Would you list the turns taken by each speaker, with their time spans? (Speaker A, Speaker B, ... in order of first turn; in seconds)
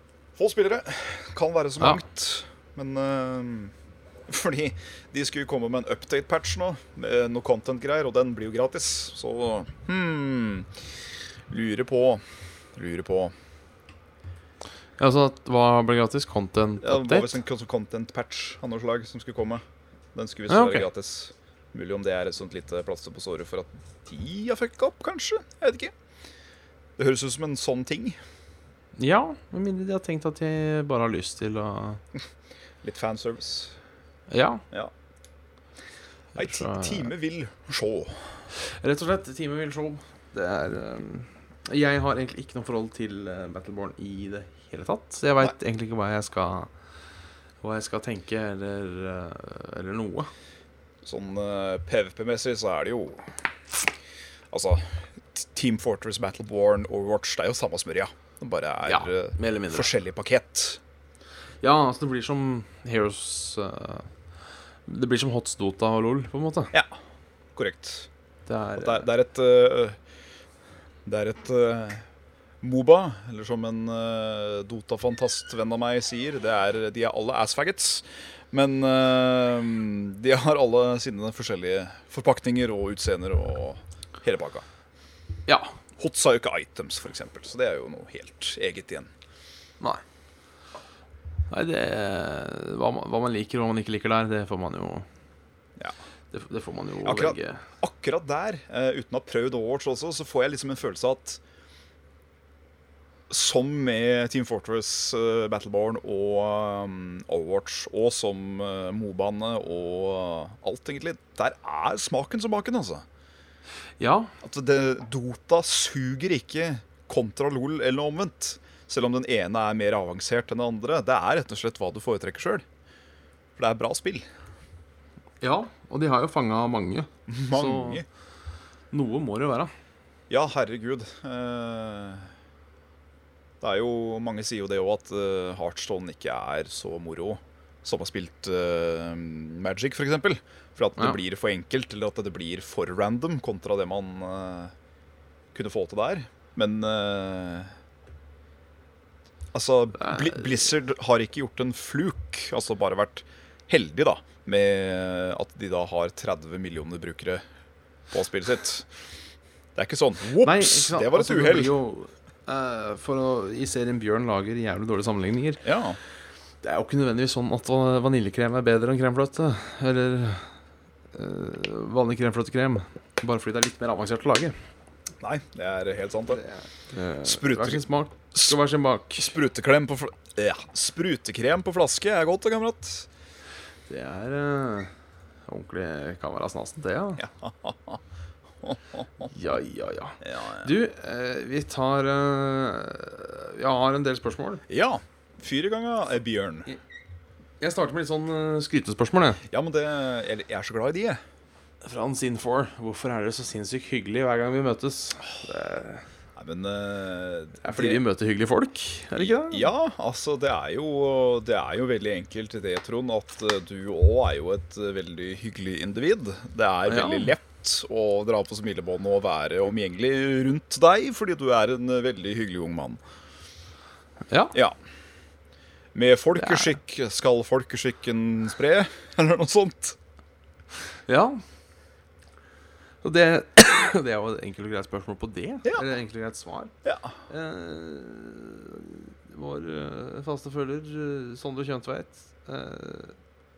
Speaker A: 0.4-3.7, 4.3-10.7, 11.5-12.2, 12.7-13.3, 16.8-19.6, 20.1-25.9, 27.0-28.2, 32.8-33.8, 36.4-38.4, 51.0-53.3, 54.5-60.8, 67.5-68.1, 68.8-70.0, 71.0-72.0, 72.6-84.6, 86.0-89.1, 97.0-101.4, 103.3-113.0, 114.4-122.6, 123.6-124.2, 127.3-128.0, 130.3-132.3, 133.6-144.7, 145.5-147.7, 149.5-157.4, 158.1-158.9, 159.8-161.7, 165.6-166.0, 175.2-176.4, 177.2-178.6, 179.2-183.1, 187.2-188.0, 188.6-189.3, 190.2-190.7, 194.7-196.7, 199.5-201.2, 206.4-208.0, 209.2-223.0, 225.9-230.0, 236.8-237.1
Speaker B: 15.0-17.4, 20.5-20.9, 29.0-32.0, 34.3-34.6, 36.4-37.1, 38.5-46.7, 47.6-50.3, 58.9-59.9, 61.6-64.1, 64.9-66.7, 68.5-69.0, 85.5-85.8, 91.5-95.0, 96.3-97.6, 114.0-114.3, 125.4-128.0, 128.9-129.7, 149.9-150.6, 160.4-165.6, 166.6-170.5, 171.1-174.6, 176.3-179.3, 183.9-184.9, 185.5-187.2, 189.3-194.6, 197.6-199.4, 201.8-206.1, 207.6-209.7, 216.9-217.3, 224.3-224.6, 226.4-226.8, 231.1-231.4, 233.0-236.7, 237.3-243.2